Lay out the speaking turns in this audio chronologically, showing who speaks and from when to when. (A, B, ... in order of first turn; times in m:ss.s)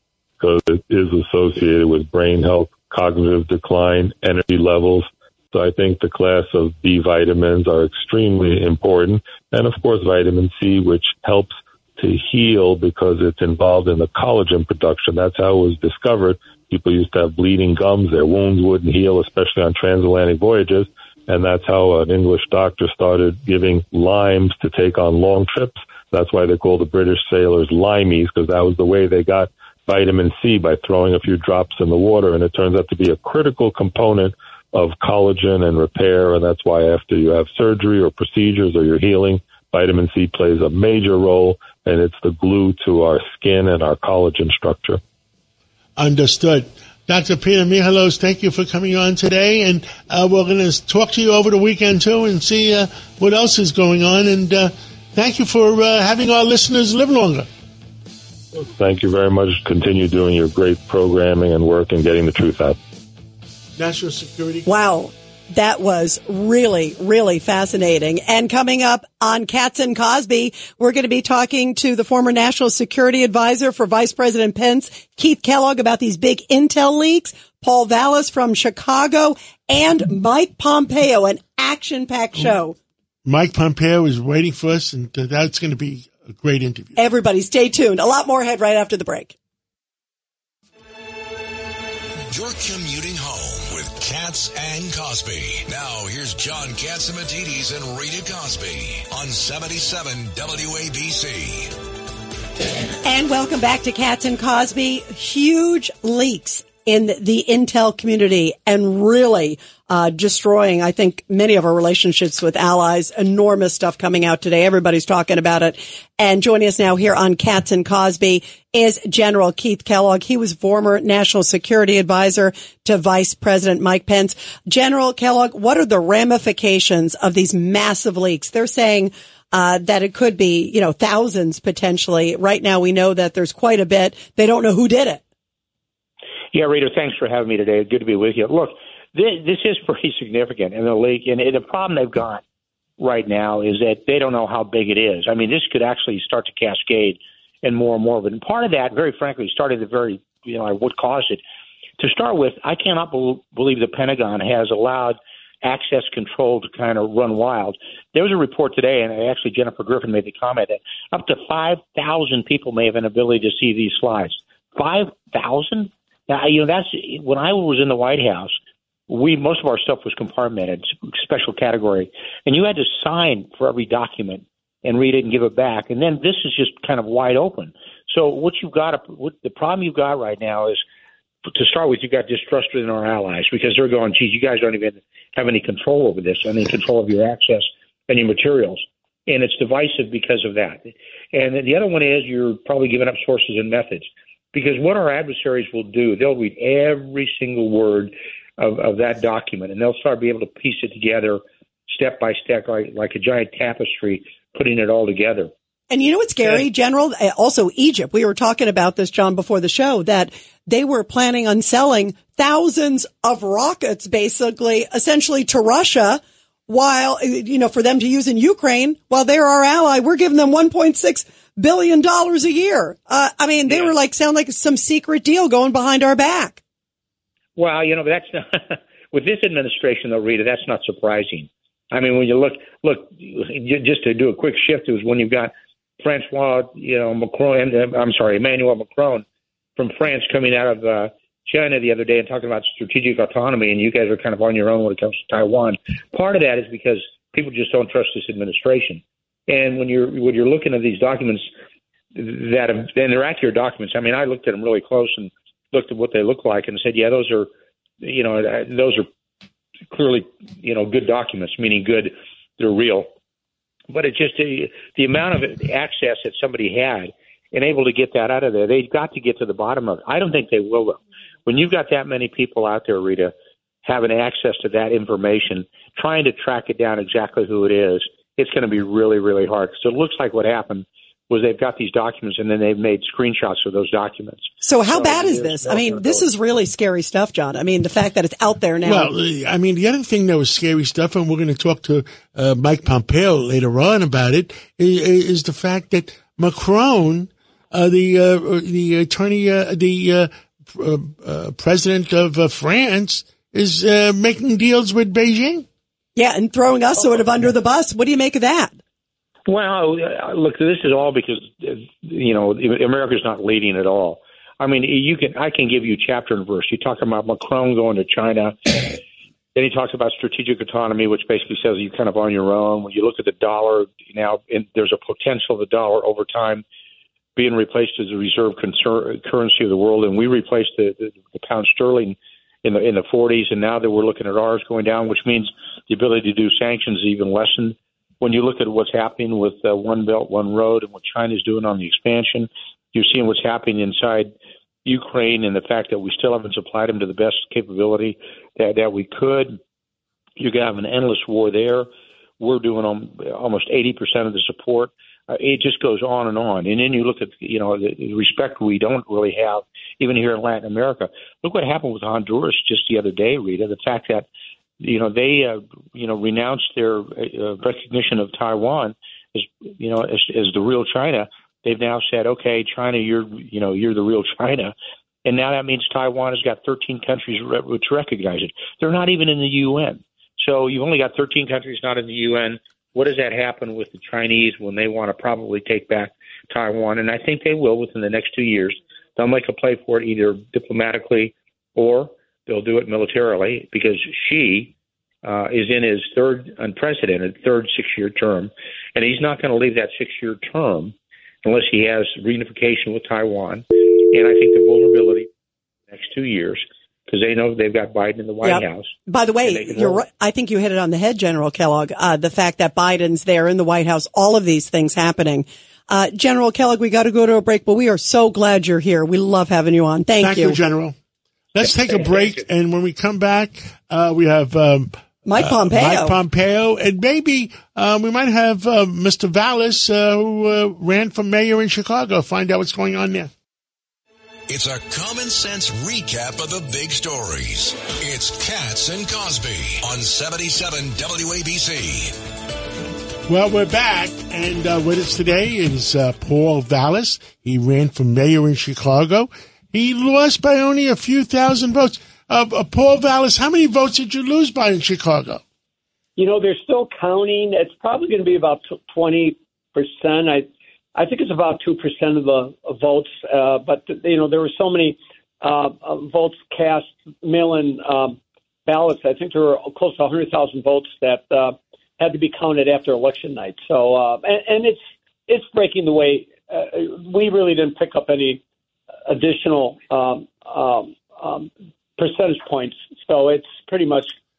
0:00.4-0:45.0 A
0:46.0-0:57.5 B
0:58.7-1:02.8 A
1:03.8-1:04.7 B
1:04.7-1:22.8 C
1:23.2-1:27.0 B
1:27.0-1:29.3 C
1:32.3-1:41.7 D
1:43.0-2:15.2 C
2:16.5-2:22.4 E
2:23.0-2:31.4 E
2:32.0-2:48.6 E
2:49.1-3:00.8 E
3:01.5-3:25.5 E
3:25.9-3:46.6 C
3:47.6-3:59.2 E
3:59.8-4:11.5 E
4:12.1-4:17.5 E
4:18.0-4:19.1 E
4:19.9-4:23.1 E
4:23.9-4:46.4 E
4:44.6-4:49.1 C
4:48.8-5:05.7 B
5:06.2-5:08.8 C
5:09.5-5:19.0 E
5:19.6-5:26.6 E
5:27.4-5:44.3 E
5:44.8-5:49.6 E
5:50.4-5:51.9 E
5:52.4-6:04.3 E
6:04.8-6:14.7 E
6:15.2-6:45.3 E
6:45.9-6:48.9 E
6:48.4-7:00.6 C
6:49.4-6:50.0 E
7:00.2-7:01.0 B
7:01.5-7:13.3 B
7:05.3-7:06.2 C
7:14.5-7:22.2 D
7:23.3-7:35.4 B
7:36.2-7:58.4 F
7:59.1-8:04.1 F